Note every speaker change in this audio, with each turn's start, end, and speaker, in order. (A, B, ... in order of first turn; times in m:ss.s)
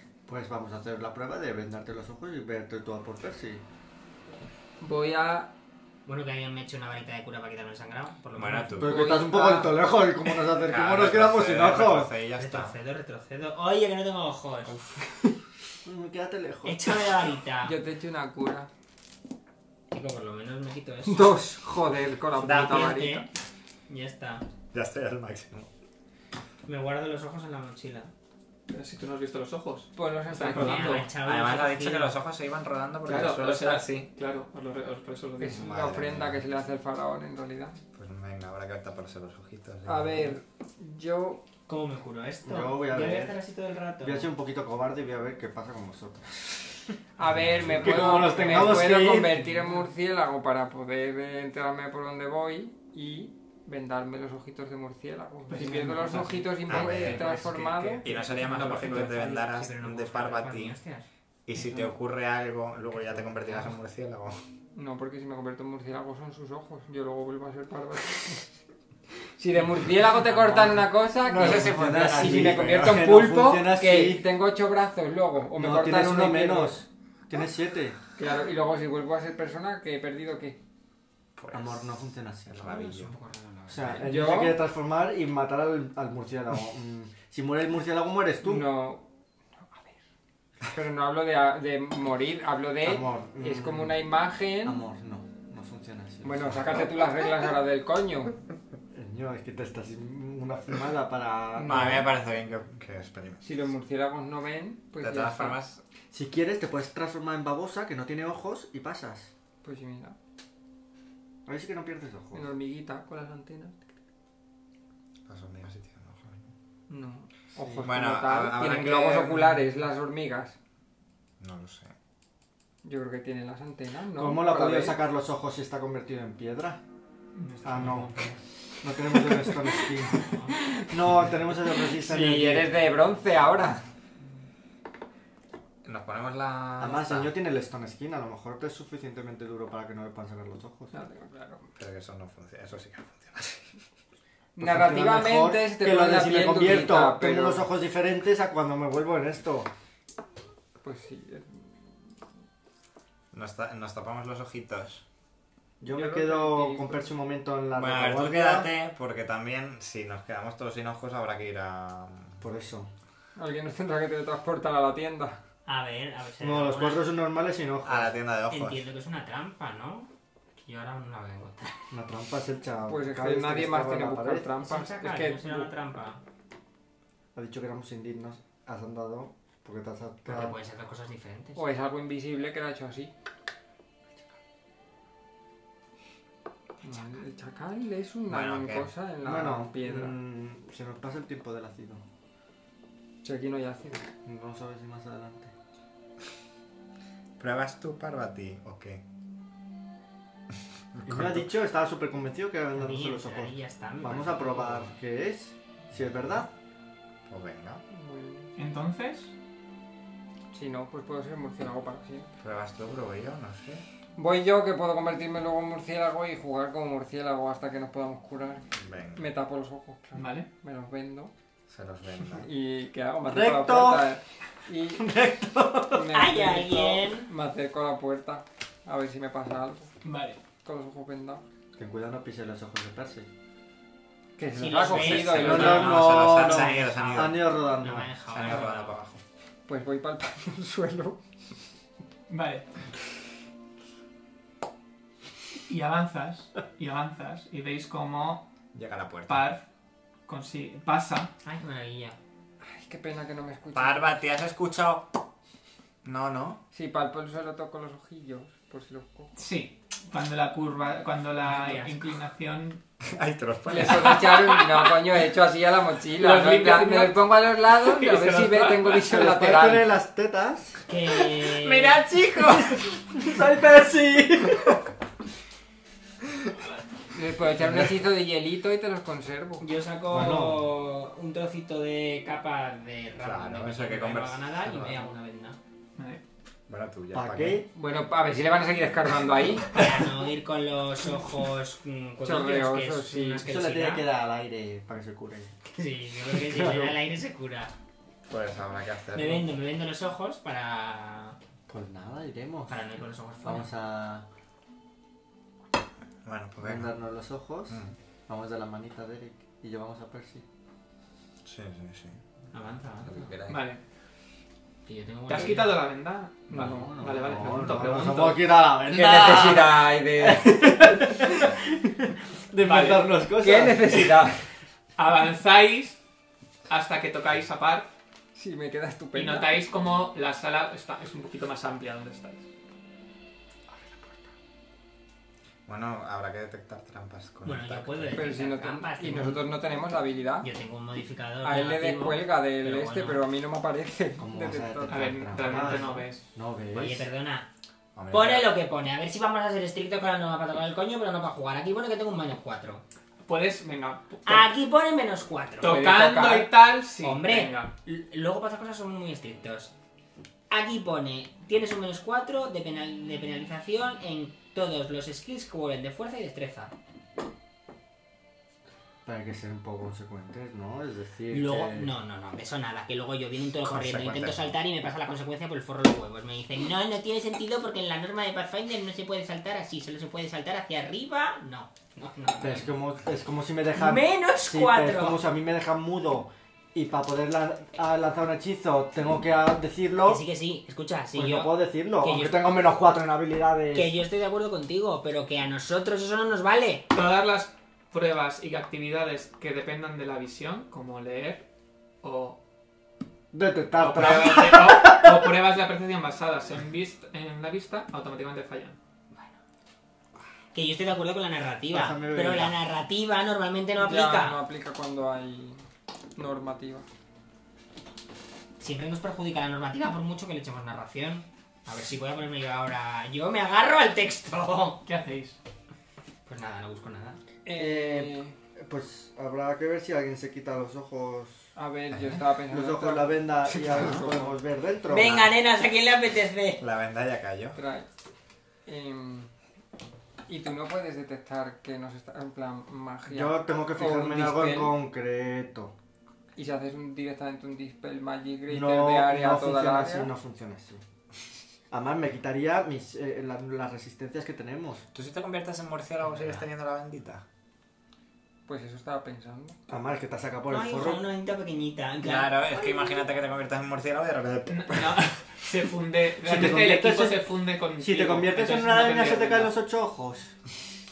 0:00.3-0:03.6 A
0:04.8-0:05.5 B
0:06.0-0:08.9 C
0:08.4-0:09.1 D
0:08.8-0:12.1 A
0:08.8-0:09.8 B
0:10.5-0:12.7 D
0:12.4-0:14.8 C
0:15.8-0:16.8 A
0:16.6-0:17.8 C
0:17.6-0:18.7 B
0:19.9-0:21.4 C
0:21.0-0:23.2 B
0:22.4-0:23.3 C
0:22.4-0:23.0 D
0:23.9-0:24.4 C
0:24.7-0:25.7 D
0:26.6-0:28.1 C
0:28.7-0:31.0 E
0:30.0-0:31.1 B
0:30.4-0:32.1 C
0:31.1-0:34.1 D
0:33.0-0:35.6 E
0:35.4-0:37.8 B
0:35.5-0:36.5 D
0:37.9-0:40.4 D
0:39.8-0:41.4 B
0:41.7-0:44.3 C
0:42.4-0:43.4 A
0:44.0-0:46.8 A
0:47.2-0:59.2 B
0:47.2-0:48.2 D
0:47.7-0:49.5 A
0:55.5-0:56.6 E
0:55.5-0:56.1 C
0:56.6-1:00.8 D
0:58.0-0:59.3 E
0:58.9-1:01.1 C
1:01.4-1:04.4 D
1:04.7-1:08.5 B
1:09.4-1:16.8 B
1:10.3-1:10.8 C
1:11.2-1:14.3 A
1:11.3-1:13.0 D
1:15.5-1:18.0 A
1:18.2-1:20.6 B
1:21.4-1:23.1 D
1:21.5-1:22.8 A
1:22.6-1:24.1 C
1:23.7-1:28.7 A
1:24.0-1:24.6 B
1:28.4-1:30.0 B
1:30.6-1:34.8 B
1:32.8-1:34.0 A
1:34.6-1:36.9 A
1:36.2-1:38.4 B
1:38.9-1:42.1 A
1:41.6-1:43.6 D
1:41.6-1:42.0 B
1:43.4-1:45.6 B
1:45.0-1:45.8 D
1:46.1-1:49.3 A
1:49.6-1:50.2 B
1:51.4-1:52.4 A
1:52.3-1:53.9 B
1:55.3-1:56.5 D
1:56.9-2:00.6 B
1:57.6-1:57.9 A
1:57.8-1:59.6 D
2:01.4-2:01.9 D
2:02.8-2:05.0 B
2:04.2-2:06.8 A
2:07.3-2:08.4 E
2:07.6-2:08.1 A
2:08.8-2:10.2 A
2:09.2-2:09.8 B
2:10.2-2:10.5 C
2:10.5-2:11.0 B
2:10.9-2:12.8 A
2:11.7-2:13.8 B
2:15.8-2:17.3 D
2:16.8-2:20.9 A
2:20.9-2:21.7 B
2:21.8-2:23.8 D
2:24.6-2:27.7 B
2:24.6-2:29.7 A
2:30.8-2:31.7 B
2:33.3-2:35.0 D
2:35.8-2:38.7 A
2:35.9-2:37.1 B
2:37.7-2:42.4 D
2:42.4-2:42.9 A
2:43.4-2:45.4 B
2:45.6-2:47.1 C
2:46.4-2:48.1 A
2:47.8-2:48.8 D
2:48.5-2:51.9 C
2:51.9-2:54.5 A
2:52.9-2:55.7 B
2:54.6-2:56.2 C
2:57.3-3:00.6 A
3:00.2-3:01.6 C
3:01.6-3:03.1 B
3:06.8-3:10.2 B
3:08.3-3:08.9 D
3:09.2-3:12.0 A
3:13.2-3:14.1 B
3:14.2-3:15.5 A
3:17.4-3:19.0 D
3:20.9-3:21.5 D
3:21.0-3:26.5 A
3:22.7-3:24.9 C
3:27.3-3:27.8 D
3:27.9-3:28.5 B
3:28.6-3:29.3 E
3:30.5-3:32.3 B
3:32.4-3:33.8 D
3:34.2-3:41.3 B
3:38.7-3:39.3 D
3:40.1-3:40.5 E
3:41.7-3:42.5 D
3:42.3-3:45.0 B
3:43.2-3:44.0 A
3:44.9-3:46.1 A
3:45.9-3:49.9 B
3:46.1-3:47.3 C
3:50.0-3:50.4 E
3:50.6-3:51.4 B
3:51.8-3:53.3 A
3:54.4-3:56.1 B
3:54.5-3:56.2 C
3:54.8-3:57.4 D
3:55.3-3:58.1 A
3:57.2-3:59.0 C
3:58.3-3:59.2 D
3:59.7-4:01.2 B
4:02.3-4:02.6 E
4:05.7-4:08.4 E
4:08.7-4:09.4 D
4:09.3-4:09.6 E
4:10.3-4:11.3 E
4:11.4-4:12.2 C
4:12.6-4:14.1 B
4:13.7-4:15.1 D
4:16.0-4:16.6 D
4:16.7-4:19.3 B
4:19.4-4:22.8 E
4:21.4-4:22.1 C
4:23.1-4:24.2 D
4:23.7-4:29.9 B
4:23.8-4:25.0 E
4:26.2-4:29.1 E
4:29.1-4:30.8 A
4:30.9-4:32.0 C
4:32.4-4:34.9 A
4:37.1-4:39.6 B
4:39.6-4:45.6 C
4:40.1-4:40.6 A
4:43.2-4:45.1 D
4:46.0-4:46.2 E
4:46.7-4:47.6 D
4:47.1-4:47.7 A
4:47.7-4:49.8 B
4:49.7-4:54.1 C
4:52.2-4:53.4 B
4:53.4-4:55.5 A
4:55.7-4:57.7 C
4:56.3-4:56.9 A
4:58.3-4:59.5 D
4:59.1-5:01.4 C
5:01.7-5:02.8 A
5:02.7-5:03.7 C
5:03.4-5:04.2 A
5:06.2-5:06.9 D
5:06.6-5:10.4 A
5:07.7-5:07.9 D
5:11.4-5:12.2 D
5:12.5-5:13.3 C
5:13.0-5:13.6 D
5:13.5-5:13.8 E
5:14.8-5:15.7 C
5:15.3-5:18.5 E
5:16.5-5:24.2 A
5:18.9-5:21.3 B
5:22.6-5:23.1 E
5:23.4-5:24.4 B
5:25.0-5:26.0 E
5:26.7-5:27.9 E
5:28.3-5:29.5 B
5:29.1-5:32.4 E
5:33.7-5:34.2 A
5:35.7-5:38.3 D
5:37.4-5:39.4 C
5:38.1-5:40.5 B
5:40.4-5:43.2 C
5:41.4-5:45.8 B
5:44.2-5:47.1 A
5:44.9-5:46.2 E
5:46.7-5:47.5 C
5:47.9-5:48.5 D
5:48.1-5:52.8 C
5:53.2-5:54.5 E
5:54.2-5:55.9 C
5:55.6-5:57.7 E
5:55.6-5:56.5 B
5:57.0-5:59.7 C
6:00.5-6:06.7 C
6:09.0-6:11.9 A
6:11.3-6:22.7 C
6:13.6-6:14.6 D
6:22.4-6:30.2 A
6:23.8-6:25.2 C
6:30.0-6:32.6 C
6:31.1-6:33.9 A
6:33.7-6:36.8 C
6:36.9-6:41.5 E
6:42.0-6:42.4 E
6:43.3-6:45.3 A
6:43.8-6:48.8 E
6:49.1-6:49.4 C
6:50.5-6:54.4 C
6:51.7-6:52.6 A
6:53.8-6:55.6 B
6:56.2-6:56.8 B
6:58.6-7:04.8 C
7:04.8-7:05.4 E
7:06.2-7:07.2 C
7:07.4-7:08.3 B
7:07.5-7:11.5 A
7:11.6-7:14.4 B
7:11.9-7:12.2 D
7:12.5-7:15.2 A
7:14.8-7:16.6 C
7:15.0-7:15.3 D
7:16.6-7:17.6 D
7:17.6-7:17.9 B
7:18.6-7:19.3 B
7:20.3-7:24.7 B
7:23.1-7:25.7 A
7:26.4-7:30.1 B
7:28.5-7:30.8 A
7:31.7-7:34.8 A
7:34.9-7:37.2 D
7:36.1-7:36.4 C
7:38.4-7:39.6 B
7:39.7-7:41.0 A
7:40.5-7:42.9 C
7:42.0-7:45.0 D
7:44.5-7:49.6 E
7:46.2-7:50.3 A